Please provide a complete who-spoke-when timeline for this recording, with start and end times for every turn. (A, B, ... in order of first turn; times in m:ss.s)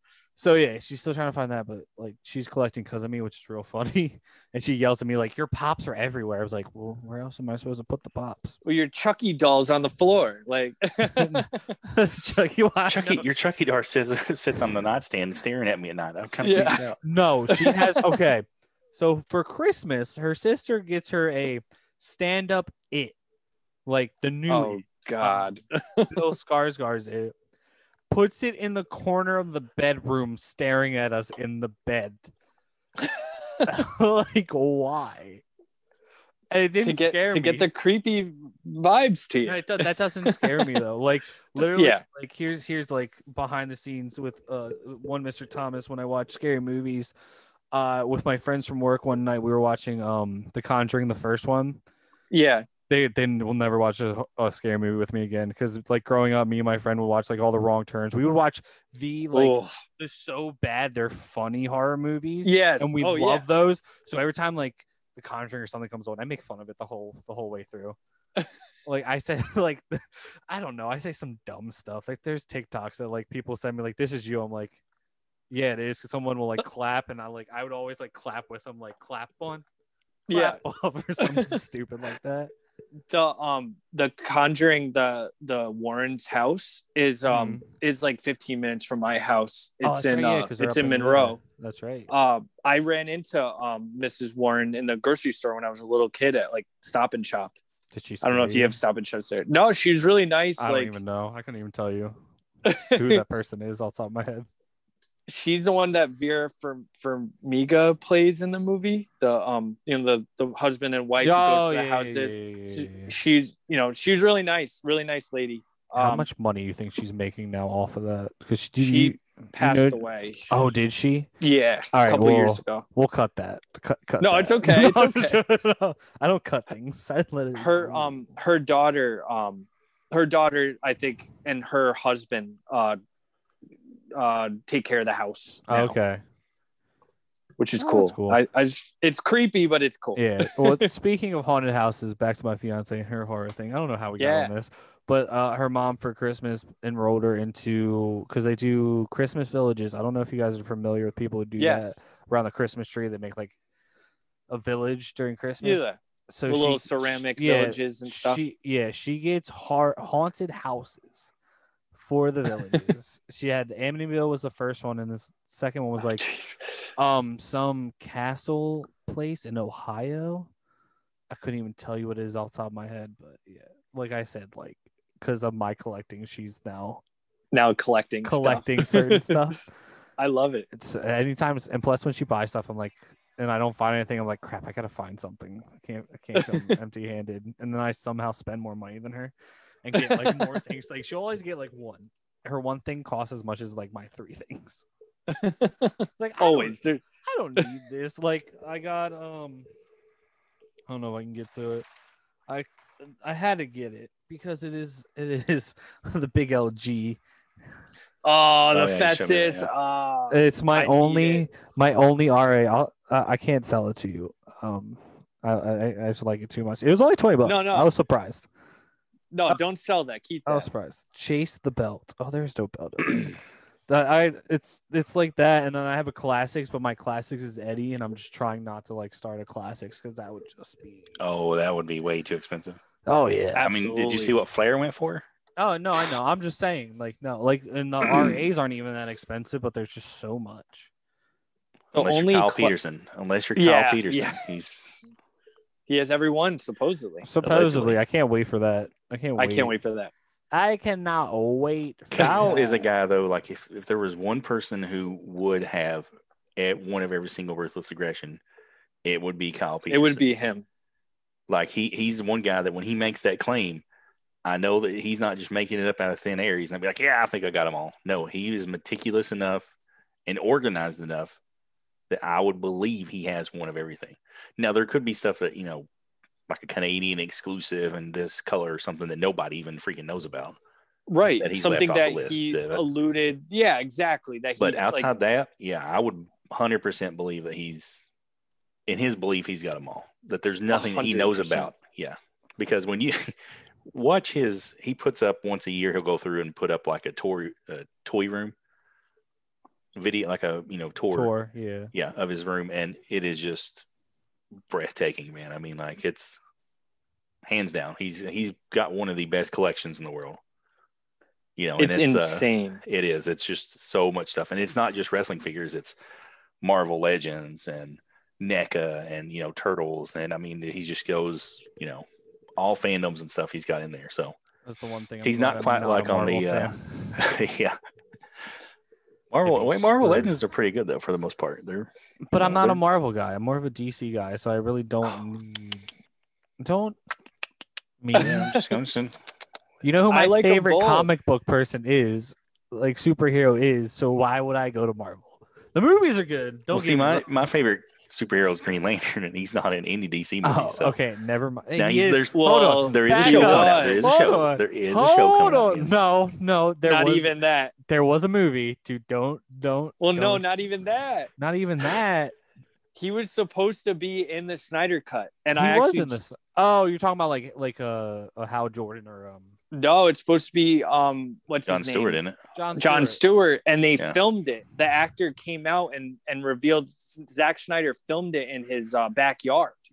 0:00.4-0:08.6 A
0:08.6-0:11.5 B
0:11.0-0:13.3 A
0:12.9-0:17.0 C
0:16.3-0:23.2 A
0:16.4-0:16.9 B
0:17.5-0:18.1 B
0:23.9-0:25.5 A
0:24.5-0:26.2 B
0:26.1-0:27.3 A
0:28.1-0:32.3 A
0:33.0-0:33.6 B
0:33.7-0:35.4 A
0:36.5-0:37.7 A
0:36.8-0:40.8 B
0:39.4-0:47.1 A
0:41.6-0:42.0 B
0:47.7-0:51.8 A
0:52.3-0:52.7 B
0:52.9-1:08.0 A
0:59.3-0:59.7 B
1:02.4-1:03.5 B
1:08.9-1:14.8 A
1:15.5-1:19.6 A
1:20.3-1:20.6 B
1:20.3-1:22.5 A
1:21.2-1:21.6 B
1:23.1-1:31.4 B
1:27.3-1:27.7 A
1:29.8-1:32.1 A
1:32.1-1:37.6 B
1:37.9-1:38.8 A
1:38.2-1:41.0 B
1:40.6-1:42.2 A
1:42.6-1:43.2 B
1:42.8-1:44.5 A
1:45.3-1:56.3 B
1:51.2-1:53.1 A
1:56.0-2:01.3 A
1:58.8-2:00.5 B
2:01.4-2:02.8 B
2:01.9-2:08.2 A
2:04.2-2:05.4 B
2:07.6-2:13.0 B
2:14.1-2:16.0 B
2:15.7-2:16.2 A
2:17.6-2:20.9 B
2:17.8-2:18.4 A
2:20.2-2:33.6 A
2:24.2-2:24.5 B
2:31.6-2:32.0 B
2:34.5-2:41.3 A
2:35.6-2:38.4 B
2:42.0-2:46.2 A
2:46.0-2:46.6 B
2:47.0-2:50.5 A
2:51.3-2:57.0 A
2:57.5-2:59.4 B
2:58.2-2:59.6 A
3:00.2-3:00.7 B
3:00.7-3:14.9 A
3:06.4-3:06.8 B
3:10.0-3:10.5 B
3:15.3-3:17.0 B
3:16.2-3:19.7 A
3:20.9-3:21.9 A
3:22.5-3:27.2 A
3:28.2-3:31.5 B
3:28.7-3:29.7 C
3:30.3-3:38.5 A
3:37.4-3:37.9 B
3:39.3-3:40.7 B
3:40.5-3:51.1 A
3:51.2-3:52.8 C
3:53.1-3:53.7 A
3:53.6-3:54.4 B
3:53.6-3:55.2 C
3:55.6-4:00.9 A
4:01.9-4:05.1 C
4:01.9-4:02.8 B
4:03.6-4:04.5 B
4:05.9-4:07.3 B
4:07.2-4:09.7 A
4:07.4-4:08.0 C
4:09.4-4:10.1 B
4:10.5-4:12.8 A
4:12.2-4:18.4 C
4:19.0-4:20.2 C
4:19.9-4:20.6 B
4:21.5-4:23.8 C
4:24.4-4:29.7 C
4:30.3-4:31.4 C
4:32.1-4:35.9 C
4:36.5-4:40.6 C
4:41.1-4:45.1 B
4:41.4-4:42.8 C
4:44.6-4:48.1 C
4:48.9-4:58.6 C
4:50.7-4:51.7 B
5:00.0-5:01.3 C
5:01.1-5:01.9 A
5:01.9-5:03.9 C
5:04.7-5:06.4 C
5:07.4-5:10.4 C
5:11.6-5:16.0 C
5:11.8-5:12.8 B
5:16.6-5:22.0 C
5:22.6-5:24.4 C
5:24.6-5:27.2 A
5:25.2-5:27.8 C
5:29.3-5:32.8 C
5:29.4-5:30.4 A
5:32.3-5:35.9 A
5:36.6-5:37.0 A
5:38.0-5:38.6 A
5:38.2-5:39.2 C
5:39.8-5:47.3 A
5:40.1-5:41.1 B
5:46.7-5:51.0 C
5:50.4-5:57.3 A
5:51.8-5:56.0 C
5:52.3-5:54.5 B
5:56.9-5:57.8 B
5:57.9-6:00.4 A
6:00.0-6:01.3 B
6:01.4-6:02.4 A
6:03.0-6:06.2 B
6:05.6-6:09.5 A
6:09.7-6:12.2 B
6:11.7-6:12.4 C
6:12.6-6:13.2 A
6:12.8-6:19.8 B